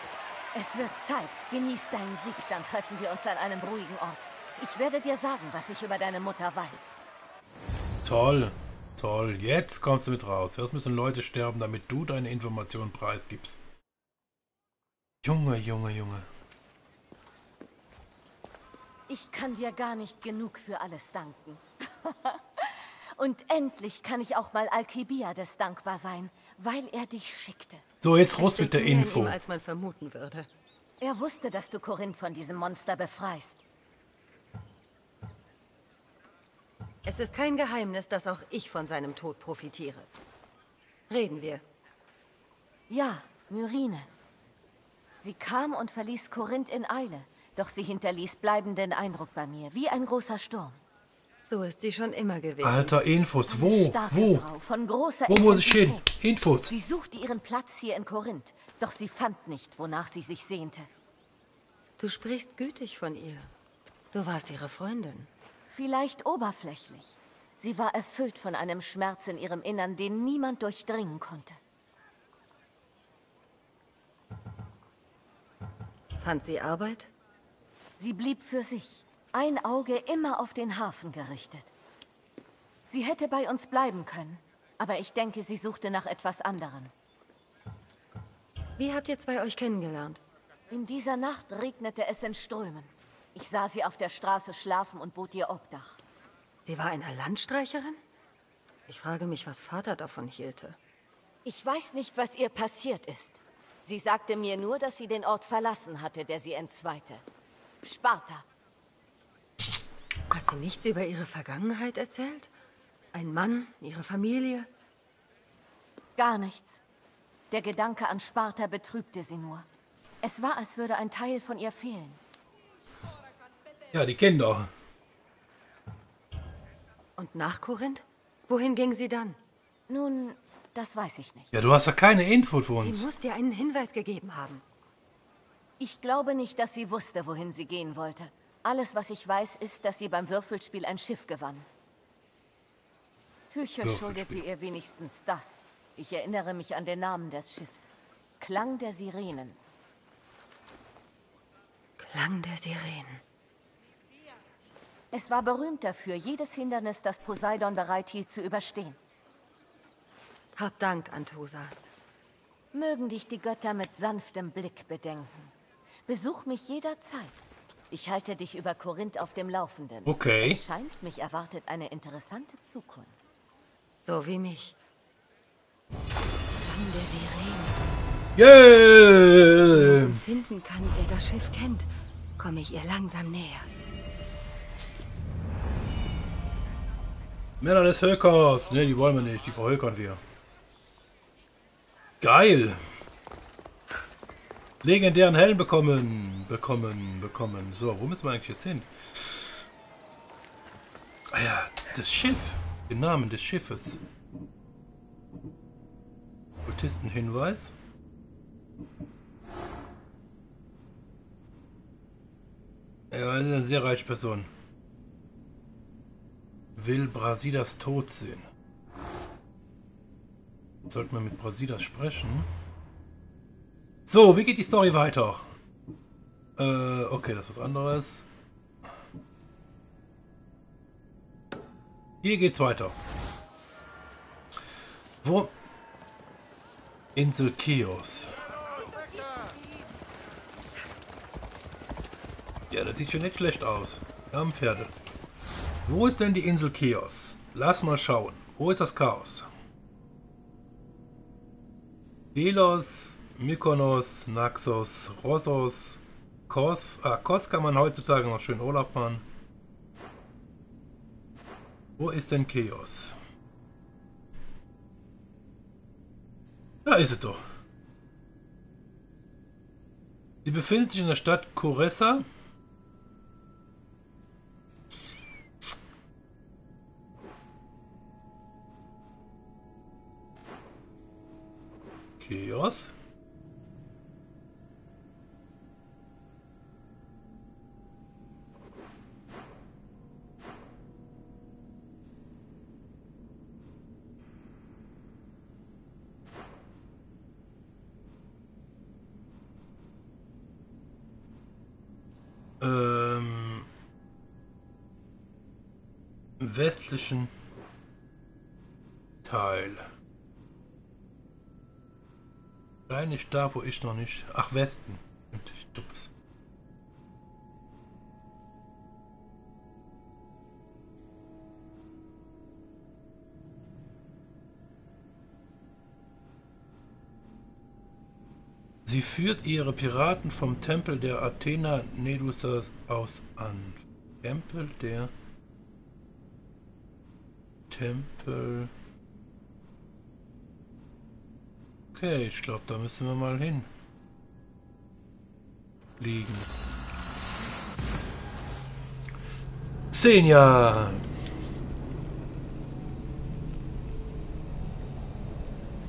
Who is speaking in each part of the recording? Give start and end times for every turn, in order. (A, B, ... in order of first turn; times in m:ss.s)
0:00.5-0:06.9 A
0:08.0-0:13.6 B
0:15.2-0:16.2 B
0:19.1-0:27.8 A
0:28.0-0:29.4 B
0:28.4-0:30.5 C
0:31.0-0:33.6 A
0:37.1-0:40.1 C
0:41.1-0:41.6 C
0:42.9-0:44.1 A
0:45.2-0:50.8 A
0:51.4-0:53.0 C
0:52.6-0:54.5 B
0:53.5-0:56.1 A
0:55.3-0:56.7 B
0:56.7-1:00.9 A
1:02.0-1:03.5 C
1:04.1-1:05.3 C
1:05.7-1:11.6 A
1:16.2-1:17.1 C
1:18.0-1:21.7 A
1:22.9-1:26.9 A
1:28.8-1:30.2 C
1:30.7-1:36.0 A
1:36.6-1:38.0 C
1:38.9-1:40.8 C
1:41.4-1:47.2 A
1:47.8-1:48.5 A
1:50.3-1:52.5 C
1:53.1-1:54.7 C
1:56.2-1:56.8 A
1:57.5-1:59.7 A
2:00.2-2:02.2 A
2:03.9-2:04.7 B
2:07.2-2:09.4 C
2:09.9-2:11.5 A
2:11.5-2:13.1 B
2:12.8-2:14.6 C
2:15.8-2:21.7 A
2:23.5-2:29.6 A
2:23.8-2:24.4 B
2:32.0-2:33.2 C
2:35.1-2:39.0 A
2:40.6-2:41.8 C
2:42.7-2:45.5 A
2:46.1-2:53.2 A
2:50.1-2:50.6 B
2:54.0-2:54.8 C
2:56.6-2:57.8 C
2:58.4-3:00.2 B
2:59.6-3:03.7 C
3:07.6-3:10.2 B
3:12.2-3:12.8 B
3:14.8-3:19.5 B
3:21.3-3:24.0 B
3:26.6-3:27.7 B
3:33.1-3:34.5 B
3:36.8-3:38.5 B
3:40.9-3:42.5 B
3:44.1-3:45.5 B
3:46.6-3:48.3 B
3:52.2-3:53.0 B
3:55.2-3:55.5 B
3:57.2-3:58.4 B
4:02.7-4:04.9 B
4:05.9-4:09.5 B
4:12.3-4:19.2 B
4:22.0-4:23.1 B
4:26.8-4:27.4 B
4:30.4-4:32.2 B
4:42.2-4:42.9 B
5:02.6-5:03.7 B
5:06.4-5:07.3 B
5:09.2-5:09.9 B
5:12.9-5:16.1 B
5:28.8-5:35.1 B
5:37.7-5:38.7 B
5:41.9-5:43.7 B
5:46.0-5:46.5 B
5:49.9-5:51.0 B